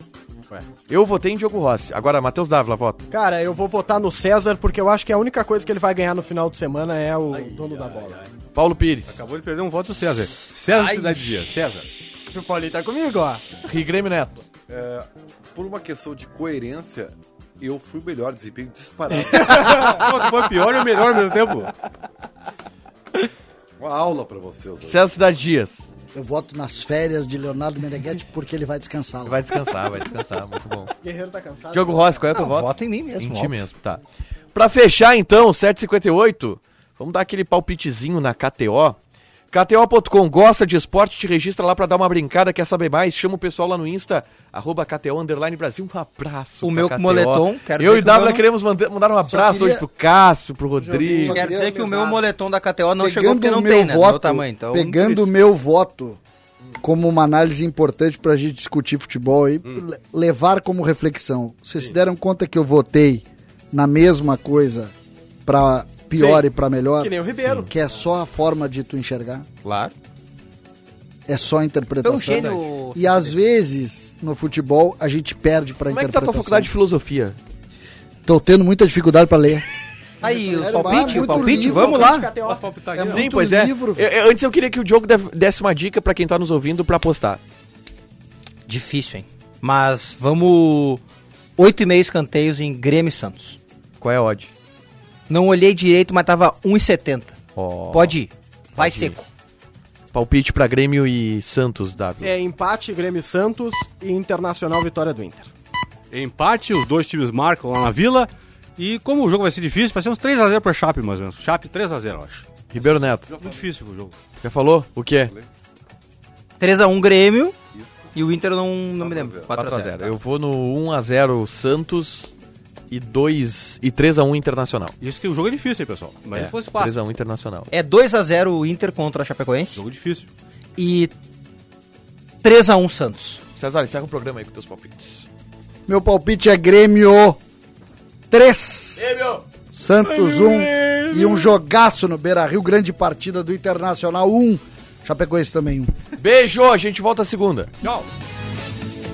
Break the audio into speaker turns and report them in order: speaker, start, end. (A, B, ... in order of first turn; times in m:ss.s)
0:00.9-0:03.1 A
0:03.1-0:08.3 B
0:07.3-0:08.3 C
0:08.5-0:09.2 A
0:09.1-0:11.9 C
0:10.7-0:11.2 B
0:12.3-0:13.6 B
0:13.6-0:14.4 A
0:14.7-0:20.0 D
0:19.2-0:21.7 C
0:23.8-0:25.1 D
0:24.8-0:25.8 A
0:26.1-0:29.4 E
0:29.2-0:30.9 A
0:31.0-0:32.4 B
0:31.7-0:34.0 A
0:32.3-0:33.7 F
0:34.5-0:39.0 A
0:39.5-0:51.5 A
0:46.6-0:48.5 F
0:49.3-0:49.9 E
0:50.8-0:52.2 E
0:51.3-0:55.3 F
0:53.0-0:56.2 E
0:56.8-1:04.9 E
1:05.5-1:09.5 E
1:06.1-1:07.7 B
1:09.6-1:09.9 F
1:11.3-1:16.7 E
1:12.0-1:13.4 F
1:15.9-1:17.4 A
1:18.3-1:19.6 E
1:20.2-1:22.3 F
1:20.2-1:22.8 B
1:20.3-1:22.2 E
1:22.3-1:23.3 C
1:23.0-1:24.1 E
1:23.0-1:27.4 A
1:28.7-1:31.0 F
1:31.6-1:33.6 F
1:34.0-1:34.5 A
1:35.3-1:39.3 F
1:37.6-1:38.2 A
1:38.8-1:39.2 A
1:40.1-1:42.4 A
1:42.2-1:45.5 B
1:46.1-1:54.1 C
1:52.7-1:53.3 A
1:53.3-1:53.6 D
1:54.4-1:55.3 A
1:55.2-1:55.5 D
1:56.6-1:57.6 F
1:57.8-1:58.1 D
1:58.1-2:00.2 F
1:59.0-1:59.8 D
1:59.5-2:02.3 A
2:02.9-2:05.0 A
2:05.0-2:07.0 C
2:06.3-2:07.7 A
2:07.7-2:09.8 F
2:09.7-2:10.3 C
2:10.8-2:11.1 F
2:12.4-2:13.4 F
2:13.6-2:15.3 A
2:15.9-2:17.4 E
2:18.3-2:19.1 E
2:19.0-2:19.4 A
2:19.7-2:25.9 E
2:20.1-2:21.4 A
2:26.2-2:27.7 A
2:27.8-2:28.1 C